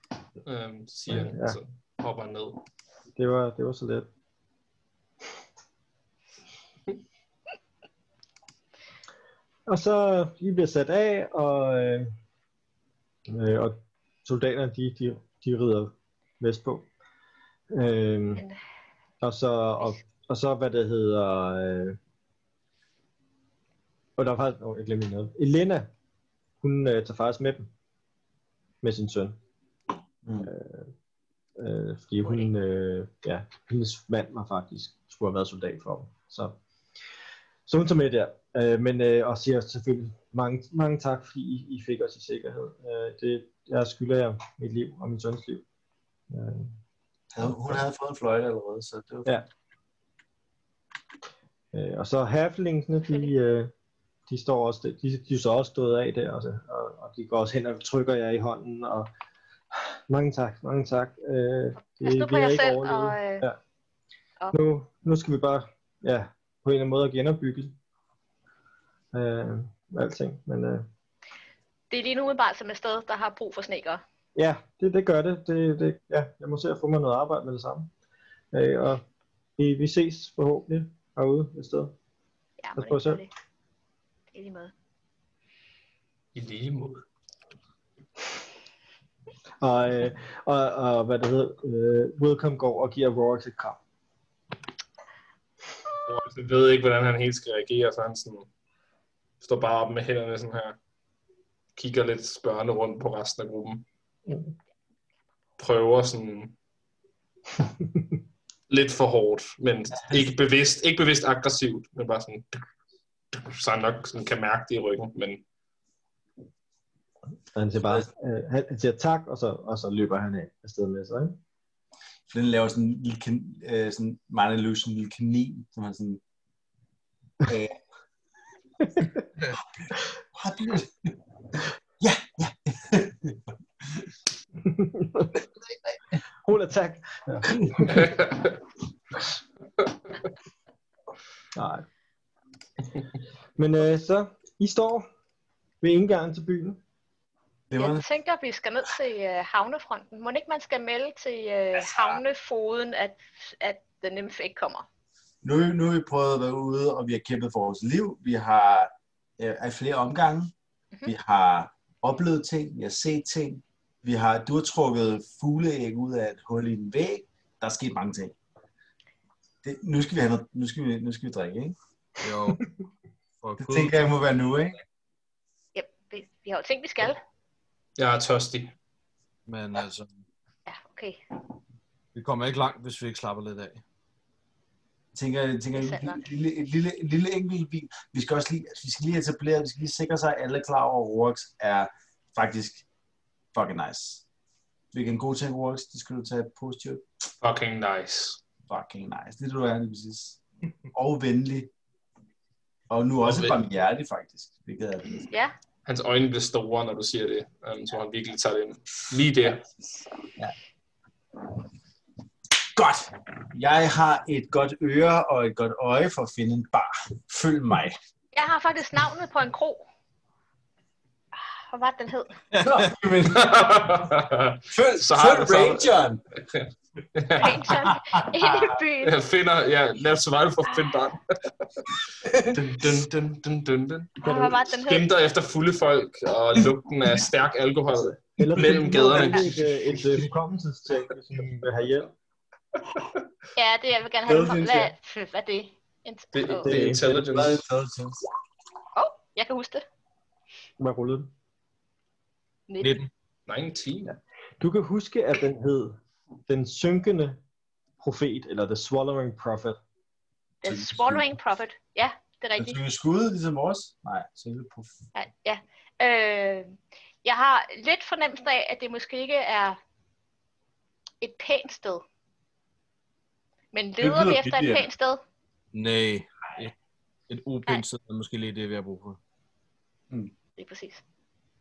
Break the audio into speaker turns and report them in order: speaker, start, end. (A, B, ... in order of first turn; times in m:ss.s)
0:00.4-0:02.6 A
0:01.1-0:01.6 B
0:03.1-0:04.1 B
0:09.7-0:12.1 B
0:13.3-0:16.8 B
0:17.7-0:18.4 B
0:19.2-0:22.0 B
0:24.2-0:25.9 B
0:26.6-0:27.7 B
0:28.8-0:29.4 B
0:30.2-0:30.5 C
0:30.4-0:30.9 B
0:31.6-0:36.6 B
0:37.7-0:45.6 B
0:46.3-0:46.8 B
0:47.3-0:49.4 C
0:47.4-0:47.8 B
0:51.7-0:53.7 B
0:54.3-0:59.1 B
0:59.7-1:03.6 B
1:02.0-1:03.4 D
1:04.5-1:07.7 B
1:09.1-1:10.9 B
1:11.9-1:14.0 D
1:14.3-1:17.9 B
1:18.5-1:19.0 B
1:19.6-1:21.9 B
1:22.6-1:23.3 D
1:22.8-1:23.2 B
1:24.3-1:24.7 D
1:26.3-1:27.0 A
1:29.6-1:33.8 B
1:36.0-1:38.5 A
1:39.4-1:40.8 A
1:41.8-1:43.8 A
1:45.6-1:46.6 A
1:48.7-1:52.6 A
1:50.0-1:50.3 C
1:53.3-1:55.4 A
1:57.5-2:01.4 B
2:02.3-2:06.2 C
2:07.4-2:07.8 C
2:08.8-2:09.2 B
2:09.8-2:14.1 C
2:14.6-2:15.4 B
2:16.4-2:18.1 B
2:17.9-2:18.5 A
2:21.5-2:21.8 B
2:23.6-2:25.0 B
2:25.8-2:26.8 B
2:27.7-2:28.0 C
2:27.8-2:34.8 D
2:31.8-2:32.2 C
2:35.4-2:40.5 C
2:41.0-2:48.3 C
2:49.6-2:51.7 C
2:52.2-2:52.6 E
2:53.4-2:54.0 E
2:53.6-2:54.8 C
2:55.7-2:57.2 D
2:58.0-2:58.7 A
2:59.5-3:00.2 E
3:00.7-3:01.2 D
3:02.1-3:03.8 E
3:05.1-3:12.8 C
3:05.7-3:06.2 D
3:13.5-3:14.2 C
3:14.9-3:17.0 C
3:17.4-3:18.4 A
3:18.7-3:20.4 C
3:20.9-3:21.7 C
3:22.9-3:25.3 C
3:23.3-3:23.6 A
3:25.3-3:25.5 D
3:25.8-3:29.6 A
3:32.8-3:38.0 C
3:38.3-3:39.8 D
3:41.4-3:42.4 D
3:42.5-3:42.9 E
3:42.6-3:43.9 C
3:43.3-3:45.9 A
3:44.7-3:46.2 C
3:46.5-3:47.8 A
3:47.4-3:49.1 D
3:47.7-3:48.7 C
3:49.0-4:00.0 A
3:54.2-3:55.1 D
3:54.2-3:54.6 B
3:57.9-4:02.1 B
3:58.5-3:59.4 C
4:03.5-4:06.7 D
4:04.2-4:04.9 C
4:06.3-4:07.6 A
4:06.6-4:07.2 B
4:07.0-4:08.2 C
4:09.0-4:09.8 D
4:10.8-4:11.3 B
4:12.7-4:13.0 D
4:12.8-4:13.1 E
4:13.5-4:14.1 A
4:14.0-4:17.4 B
4:18.0-4:19.8 B
4:20.6-4:22.8 D
4:20.6-4:21.4 C
4:22.6-4:25.0 C
4:25.1-4:29.8 D
4:31.2-4:32.0 D
4:33.7-4:35.2 D
4:34.0-4:34.9 C
4:35.7-4:36.7 E
4:37.3-4:39.2 E
4:40.6-4:41.0 D